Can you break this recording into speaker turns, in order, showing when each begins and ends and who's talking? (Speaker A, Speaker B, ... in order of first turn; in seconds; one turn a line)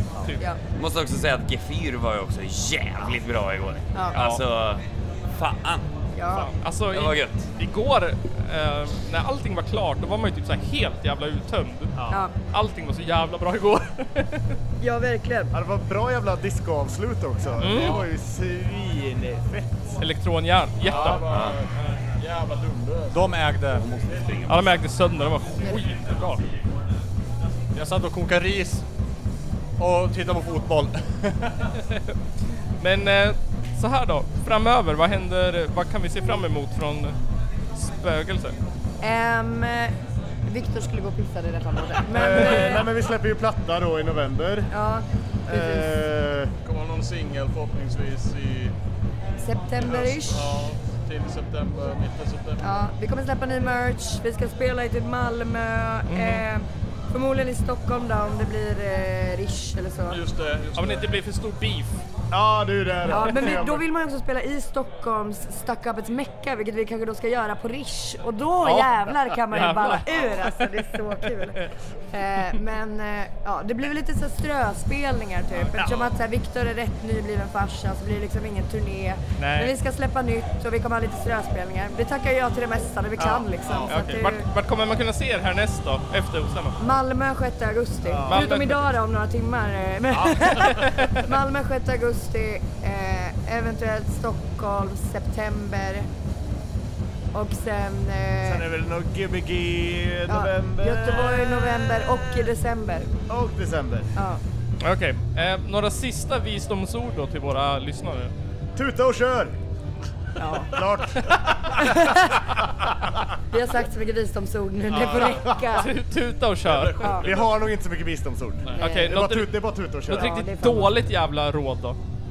Speaker A: 0.7-5.8
Speaker B: 4.1-4.4
Speaker C: 6.1-6.5
Speaker B: 6.3-14.4
Speaker A: 6.9-7.4
Speaker D: 11.9-12.2
Speaker C: 14.8-15.5
Speaker D: 15.5-20.0
Speaker B: 17.6-18.0
Speaker E: 17.6-18.1
Speaker B: 20.0-21.2
Speaker E: 20.8-24.8
Speaker A: 20.9-21.6
Speaker F: 23.1-23.8
Speaker A: 24.1-24.5
Speaker B: 24.5-26.4
Speaker F: 27.7-28.8
Speaker F: 29.8-31.5
Speaker B: 32.8-37.1
Speaker B: 37.8-38.5
Speaker C: 39.0-39.9
Speaker C: 40.5-42.9
Speaker D: 42.1-44.7
Speaker C: 44.7-45.9
Speaker D: 45.5-46.5
Speaker E: 46.6-48.7
Speaker C: 49.4-50.6
Speaker E: 49.8-52.8
Speaker C: 52.6-60.2
Speaker B: 56.1-56.4
Speaker E: 60.1-61.1
Speaker B: 60.7-62.0
Speaker D: 62.3-63.8
Speaker C: 63.1-71.6
Speaker B: 63.1-63.5
Speaker B: 68.6-70.7
Speaker C: 72.1-84.4
Speaker D: 75.8-76.1
Speaker B: 79.4-79.7
Speaker D: 83.2-83.9
Speaker E: 83.7-83.9
Speaker B: 83.9-86.8
Speaker C: 86.8-96.1
Speaker D: 88.0-88.5
Speaker B: 88.3-88.9
Speaker D: 90.2-90.5
Speaker B: 90.8-91.1
Speaker C: 97.3-98.6
Speaker D: 98.4-102.2
Speaker C: 100.3-103.1
Speaker D: 103.3-104.1
Speaker B: 104.8-108.3
Speaker D: 108.8-109.5
Speaker C: 110.4-110.7
Speaker D: 110.7-112.0
Speaker C: 111.8-112.5
Speaker D: 112.6-113.1
Speaker C: 113.5-115.9
Speaker E: 114.9-115.6
Speaker B: 115.7-117.1
Speaker E: 116.6-117.7
Speaker C: 117.0-117.2
Speaker D: 117.2-120.3
Speaker B: 118.8-119.5
Speaker C: 118.8-119.1
Speaker B: 120.1-122.0
Speaker C: 120.1-120.9